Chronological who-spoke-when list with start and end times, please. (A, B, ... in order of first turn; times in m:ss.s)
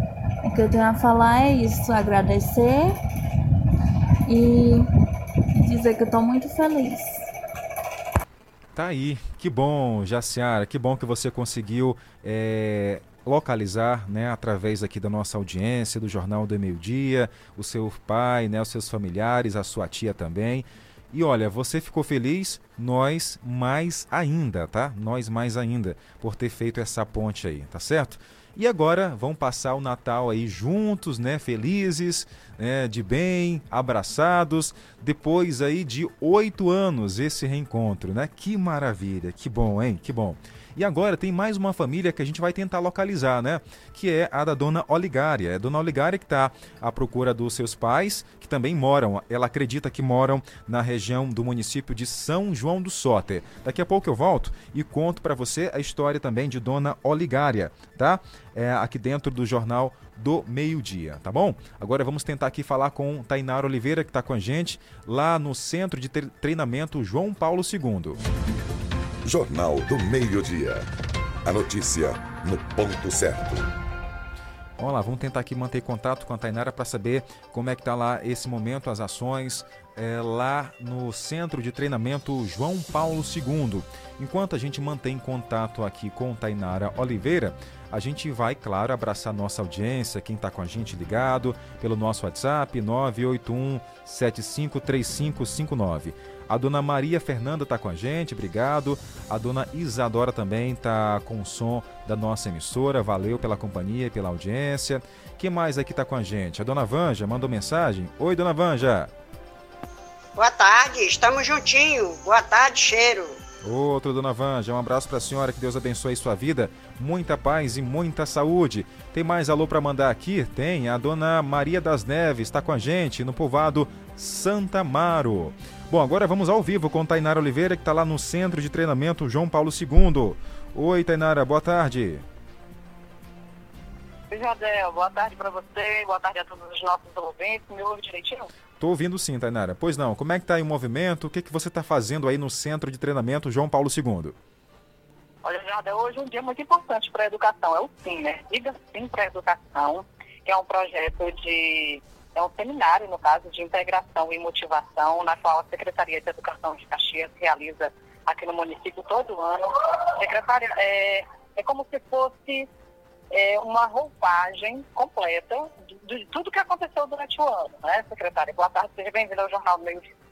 0:00.4-0:02.9 A
0:04.3-0:04.9 A
0:05.6-0:07.3 A
0:08.8-1:08.2 B
1:09.3-1:10.9 C
1:11.5-1:13.7 C
1:14.8-1:49.1 B
1:50.4-1:53.3 D
1:53.6-2:12.2 B
2:14.3-2:18.5 E
2:18.8-2:24.4 B
2:25.4-2:42.7 E
2:43.3-2:50.1 E